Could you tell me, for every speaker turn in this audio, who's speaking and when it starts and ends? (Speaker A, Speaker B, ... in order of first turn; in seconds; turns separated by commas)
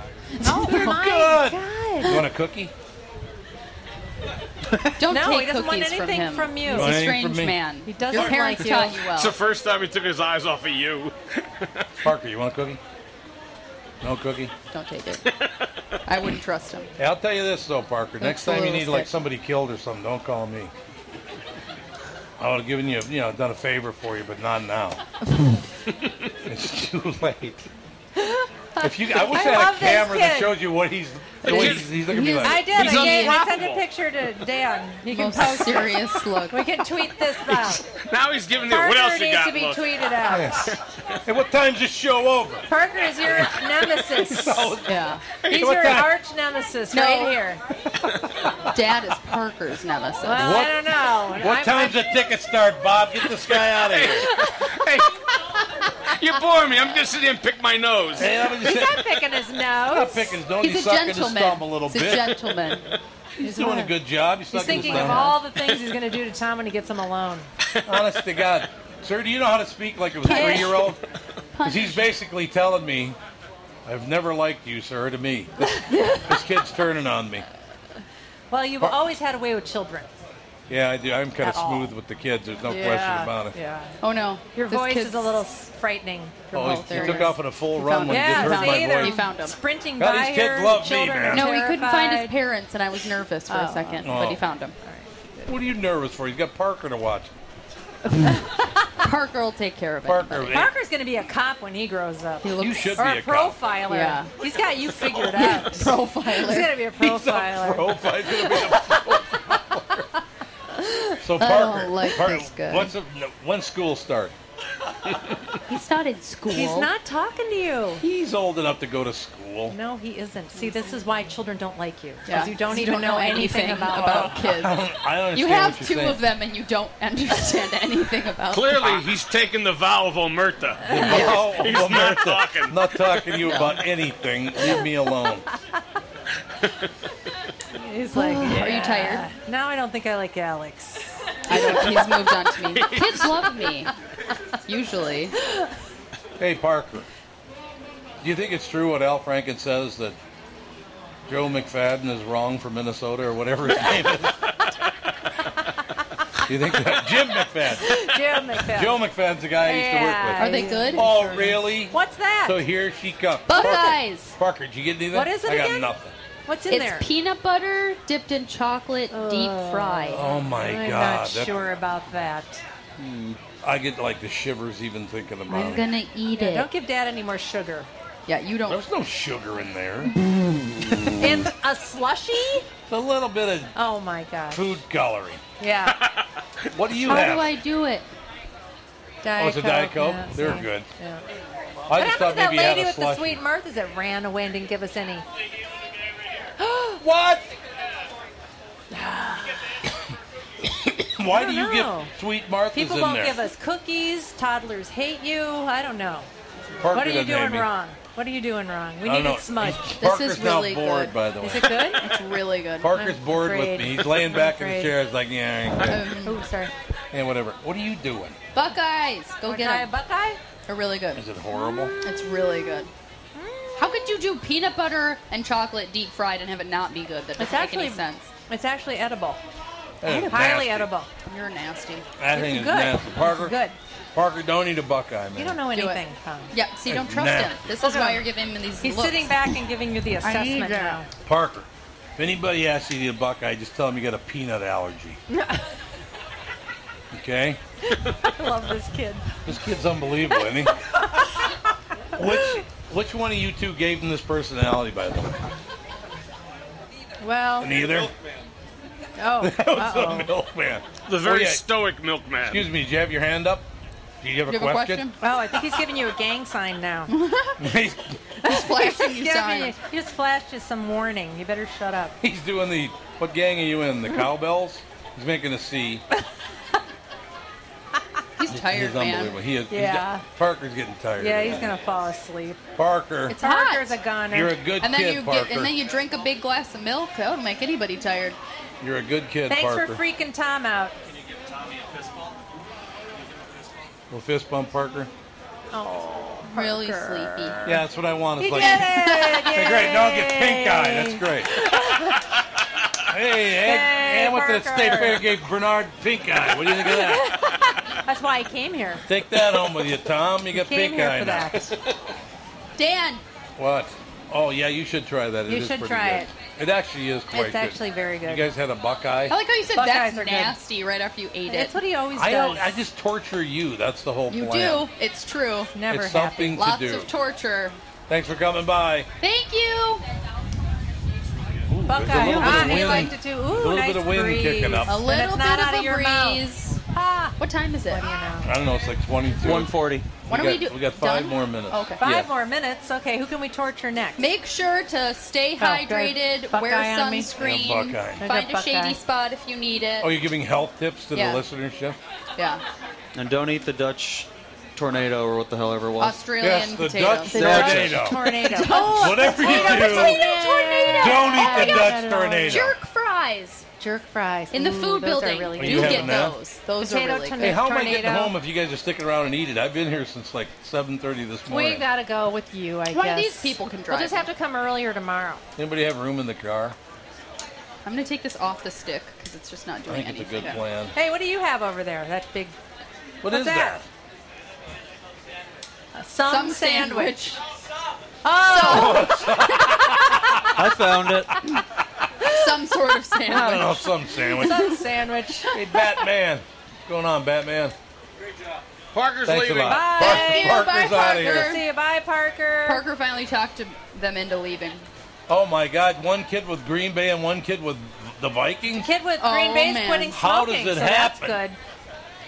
Speaker A: 0.3-0.9, Speaker B: 0.4-2.2, Speaker C: 0.6-2.7, Speaker A: 5.0-9.4, Speaker B: 5.1-7.0, Speaker C: 6.7-7.6, Speaker B: 7.8-9.1, Speaker D: 8.1-11.8, Speaker C: 12.0-12.8, Speaker C: 14.0-14.5, Speaker A: 14.7-15.2, Speaker A: 16.1-16.9, Speaker C: 17.0-20.7, Speaker A: 18.2-19.1, Speaker C: 22.4-25.0, Speaker C: 26.4-27.7, Speaker B: 28.1-30.6, Speaker C: 28.8-32.8, Speaker A: 31.4-33.4, Speaker D: 31.4-31.9, Speaker B: 32.4-37.9, Speaker D: 32.7-33.8, Speaker A: 35.1-36.8, Speaker D: 37.8-39.9, Speaker B: 38.6-40.7, Speaker C: 40.3-40.7, Speaker D: 40.5-40.9, Speaker C: 41.2-42.7, Speaker B: 42.7-44.8, Speaker C: 43.2-45.0, Speaker A: 44.9-45.2, Speaker B: 45.5-47.6, Speaker C: 45.5-46.1, Speaker A: 46.9-47.3, Speaker A: 48.7-50.7, Speaker B: 50.2-52.0, Speaker C: 50.4-50.8, Speaker C: 51.3-54.3, Speaker D: 53.8-55.1, Speaker D: 56.1-58.3, Speaker C: 58.1-59.1, Speaker B: 58.5-60.4, Speaker C: 59.8-62.4, Speaker A: 60.5-62.8, Speaker C: 63.4-65.3, Speaker B: 63.4-63.9, Speaker B: 64.5-67.5, Speaker A: 64.6-65.3, Speaker C: 67.8-71.0, Speaker A: 70.2-70.9, Speaker B: 70.2-70.8, Speaker A: 71.5-72.0, Speaker C: 71.6-73.2, Speaker C: 73.8-77.5, Speaker A: 75.8-76.3, Speaker B: 78.5-80.1, Speaker C: 80.7-83.5, Speaker B: 81.4-81.9, Speaker B: 82.7-84.0, Speaker A: 84.0-85.3, Speaker B: 84.5-87.4, Speaker C: 86.5-89.2, Speaker A: 86.5-89.6, Speaker B: 88.1-92.3, Speaker C: 90.0-91.5, Speaker A: 91.3-94.7, Speaker B: 93.5-94.1, Speaker C: 94.0-94.4, Speaker B: 94.8-95.5, Speaker C: 95.4-97.4, Speaker A: 98.1-100.5, Speaker C: 100.0-100.7, Speaker B: 100.5-108.1, Speaker A: 102.4-103.0, Speaker C: 102.6-103.6, Speaker A: 103.9-104.3, Speaker A: 105.3-106.7, Speaker C: 107.0-110.1, Speaker A: 110.9-112.9, Speaker C: 111.2-114.3, Speaker A: 115.7-116.9, Speaker B: 116.5-118.0, Speaker C: 118.0-119.8, Speaker B: 119.7-124.4, Speaker A: 122.2-124.8, Speaker C: 123.9-126.2, Speaker A: 125.3-129.0, Speaker D: 128.5-133.6, Speaker C: 130.9-135.4, Speaker A: 131.0-131.5, Speaker B: 137.7-141.8, Speaker A: 138.1-139.2, Speaker A: 141.5-143.9, Speaker D: 142.7-143.2, Speaker A: 144.7-145.3, Speaker C: 146.4-147.1, Speaker C: 148.2-150.2, Speaker C: 151.3-154.4, Speaker C: 156.4-166.1, Speaker B: 157.7-159.0, Speaker B: 159.6-162.6, Speaker A: 160.4-161.0, Speaker A: 163.5-164.3, Speaker B: 165.1-165.9, Speaker B: 166.4-167.1, Speaker A: 166.7-170.2, Speaker B: 169.1-172.6, Speaker C: 170.1-171.7, Speaker E: 173.0-173.4, Speaker C: 173.6-175.8, Speaker A: 175.5-176.7, Speaker B: 176.3-177.9, Speaker A: 178.2-178.8, Speaker C: 178.7-180.1, Speaker C: 180.9-181.2, Speaker B: 181.2-182.7, Speaker C: 182.9-183.7, Speaker B: 183.7-184.7, Speaker C: 184.5-185.4, Speaker B: 185.6-186.1, Speaker D: 185.9-186.2, Speaker C: 186.7-187.5, Speaker A: 187.0-188.1, Speaker B: 189.2-191.2, Speaker C: 189.4-190.9, Speaker C: 191.9-193.4, Speaker B: 191.9-195.2, Speaker B: 196.6-197.0, Speaker C: 197.0-197.4, Speaker B: 198.9-199.8, Speaker C: 200.8-203.4, Speaker B: 201.3-202.1, Speaker B: 202.7-206.3, Speaker C: 206.8-207.7, Speaker B: 206.9-210.0, Speaker C: 209.0-212.0, Speaker A: 210.0-211.1, Speaker B: 211.4-212.0, Speaker A: 212.0-212.9, Speaker C: 212.8-216.0, Speaker B: 212.9-214.9, Speaker A: 215.8-216.4, Speaker B: 216.2-216.7, Speaker C: 217.1-218.4, Speaker A: 218.5-219.9, Speaker B: 219.4-220.4, Speaker A: 220.7-221.2, Speaker C: 221.1-221.9, Speaker B: 221.6-222.4, Speaker A: 222.0-222.9, Speaker B: 223.3-224.1, Speaker A: 223.8-228.3, Speaker B: 227.4-229.4, Speaker C: 230.0-230.9, Speaker B: 230.0-231.1, Speaker A: 231.2-232.1, Speaker C: 232.2-233.6, Speaker B: 232.3-233.8, Speaker C: 234.1-235.6, Speaker B: 235.3-236.5, Speaker A: 235.7-239.5, Speaker C: 236.9-237.6, Speaker B: 237.8-238.2, Speaker B: 238.8-241.1, Speaker A: 240.2-241.0, Speaker C: 241.2-245.2, Speaker B: 245.3-245.6, Speaker C: 247.1-247.6, Speaker B: 247.9-249.3, Speaker C: 249.4-250.8, Speaker C: 252.1-255.4, Speaker B: 252.2-252.6, Speaker B: 257.2-257.7, Speaker C: 257.6-258.1, Speaker B: 259.2-260.3, Speaker C: 259.4-261.6, Speaker D: 261.1-262.6, Speaker C: 262.4-263.6, Speaker C: 264.2-265.1, Speaker A: 264.5-265.2, Speaker B: 265.2-267.1, Speaker A: 267.1-267.6, Speaker C: 267.6-268.2, Speaker A: 268.4-269.7, Speaker B: 268.4-272.1, Speaker C: 272.2-276.0, Speaker A: 278.4-279.4, Speaker C: 278.5-281.8, Speaker B: 279.7-280.2, Speaker B: 281.2-282.6, Speaker C: 282.8-283.4, Speaker A: 283.3-283.9, Speaker B: 283.4-284.6, Speaker C: 284.3-285.7, Speaker A: 284.8-288.4, Speaker C: 288.8-290.0, Speaker B: 289.5-290.9, Speaker C: 294.1-295.1, Speaker B: 295.7-297.8, Speaker A: 296.5-297.7, Speaker C: 297.6-301.5, Speaker B: 298.4-302.4, Speaker A: 298.6-299.8, Speaker C: 303.0-307.4, Speaker B: 303.5-305.2, Speaker B: 306.9-309.0, Speaker C: 309.1-311.7, Speaker B: 310.5-311.8, Speaker A: 312.8-313.2, Speaker C: 313.6-319.4, Speaker B: 315.5-316.3, Speaker B: 317.3-318.5, Speaker A: 319.3-321.8, Speaker B: 319.7-320.6, Speaker B: 321.5-322.7, Speaker C: 322.1-324.9, Speaker A: 324.3-325.8, Speaker B: 325.7-326.6, Speaker C: 325.9-327.1, Speaker A: 326.5-327.8, Speaker C: 328.1-329.1, Speaker A: 329.2-330.0, Speaker C: 331.7-335.0, Speaker B: 331.9-337.4, Speaker E: 332.2-332.5, Speaker A: 332.4-333.1, Speaker A: 334.9-336.8, Speaker A: 337.4-338.0, Speaker B: 337.9-338.5, Speaker C: 338.4-341.9, Speaker E: 339.4-340.1, Speaker A: 340.3-342.0, Speaker B: 342.0-344.2, Speaker E: 342.0-342.3, Speaker A: 344.2-350.1, Speaker B: 345.6-347.3, Speaker C: 347.4-348.2, Speaker B: 348.2-349.0, Speaker C: 350.0-352.0, Speaker A: 351.1-351.4, Speaker A: 352.4-352.6, Speaker E: 353.1-356.2, Speaker A: 356.0-363.6, Speaker C: 356.4-360.2, Speaker E: 357.3-358.3, Speaker B: 357.3-362.7, Speaker C: 360.9-362.7, Speaker B: 363.8-368.3, Speaker A: 364.5-367.6, Speaker C: 365.6-366.4, Speaker C: 367.4-371.9, Speaker B: 371.5-375.4, Speaker A: 372.9-374.3, Speaker C: 375.6-376.8, Speaker A: 377.8-380.6, Speaker C: 379.9-380.9, Speaker B: 380.9-382.6, Speaker C: 383.2-383.9, Speaker B: 383.2-383.8, Speaker B: 385.9-387.3, Speaker A: 386.2-387.4, Speaker B: 388.2-389.2, Speaker A: 388.5-389.9, Speaker C: 388.5-392.0, Speaker E: 390.5-391.3, Speaker A: 392.3-394.8, Speaker C: 393.2-394.7, Speaker B: 394.4-395.6, Speaker C: 395.5-397.7, Speaker D: 398.9-399.9, Speaker C: 399.2-401.6, Speaker B: 399.6-402.9, Speaker A: 400.0-401.6, Speaker A: 402.6-404.9, Speaker C: 405.3-408.9, Speaker B: 408.7-411.6, Speaker A: 409.2-410.2, Speaker C: 410.1-411.4